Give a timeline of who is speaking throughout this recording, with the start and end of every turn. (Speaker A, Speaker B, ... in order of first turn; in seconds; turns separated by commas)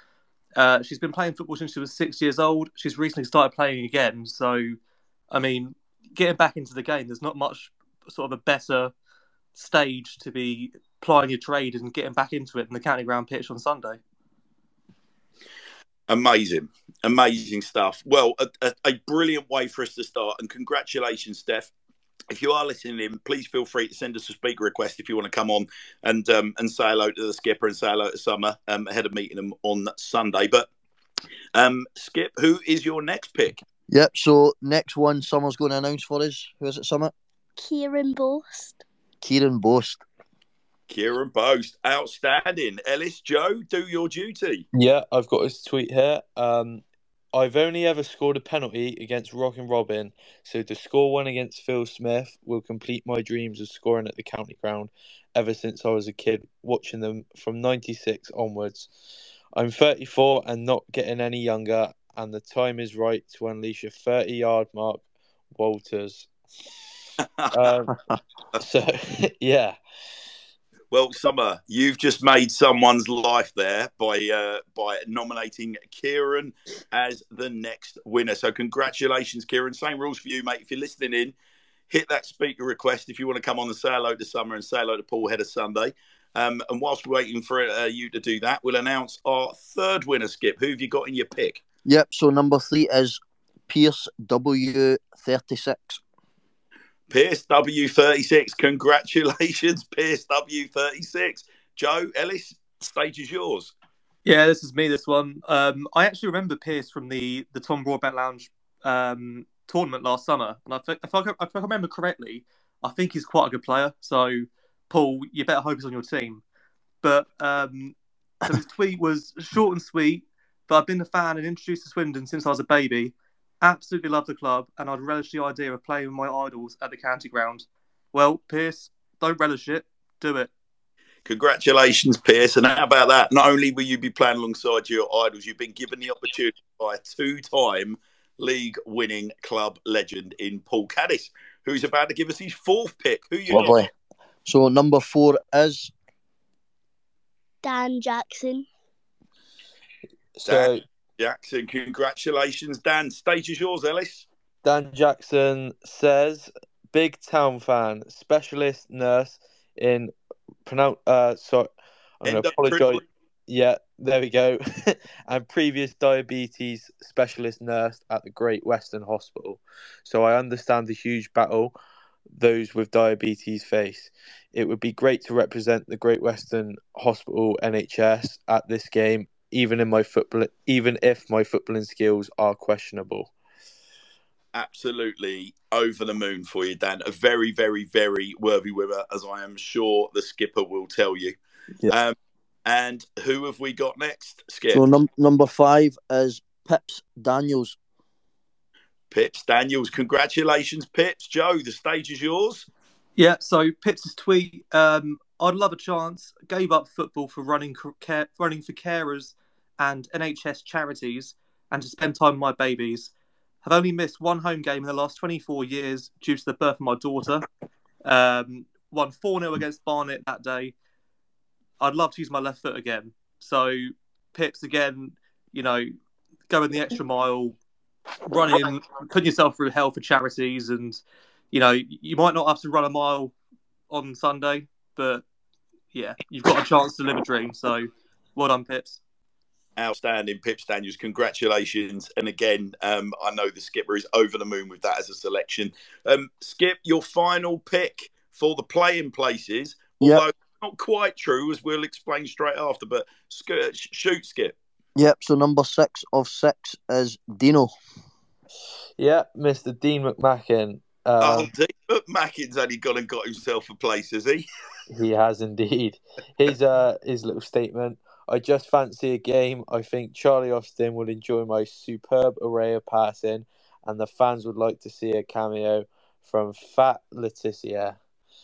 Speaker A: 0.6-4.8, Speaker A: 5.3-8.9, Speaker A: 9.6-14.0, Speaker B: 16.1-21.7, Speaker B: 22.3-30.7, Speaker B: 31.6-33.6, Speaker C: 33.9-37.1, Speaker D: 37.6-38.8, Speaker C: 39.2-40.0, Speaker B: 40.9-44.6, Speaker E: 44.8-46.8, Speaker E: 47.3-58.9, Speaker E: 59.5-66.3, Speaker B: 67.2-67.5, Speaker E: 67.5-67.9, Speaker E: 68.6-69.8, Speaker B: 70.9-81.3, Speaker B: 81.9-91.6, Speaker C: 91.9-96.0, Speaker B: 97.1-103.7, Speaker A: 104.2-116.4, Speaker A: 117.0-118.0, Speaker A: 118.5-130.5, Speaker B: 131.3-143.8, Speaker C: 143.5-143.9, Speaker C: 144.4-145.9, Speaker D: 147.6-148.7, Speaker E: 150.4-150.8, Speaker B: 150.5-154.3, Speaker E: 154.6-160.1, Speaker E: 160.6-161.7, Speaker E: 162.2-171.7, Speaker B: 162.2-163.0, Speaker E: 172.3-183.3, Speaker B: 184.5-191.4, Speaker B: 191.9-192.2, Speaker B: 192.7-194.9, Speaker C: 194.7-197.8, Speaker B: 199.1-202.7, Speaker A: 203.2-213.1, Speaker A: 213.6-217.5, Speaker A: 218.1-220.7, Speaker A: 221.8-225.9, Speaker A: 226.5-227.6, Speaker A: 228.3-233.3, Speaker A: 233.9-235.2, Speaker A: 235.9-239.0, Speaker B: 239.8-254.6, Speaker C: 250.0-250.2, Speaker C: 255.0-257.7, Speaker E: 259.0-261.5, Speaker B: 261.2-264.4, Speaker E: 264.9-278.0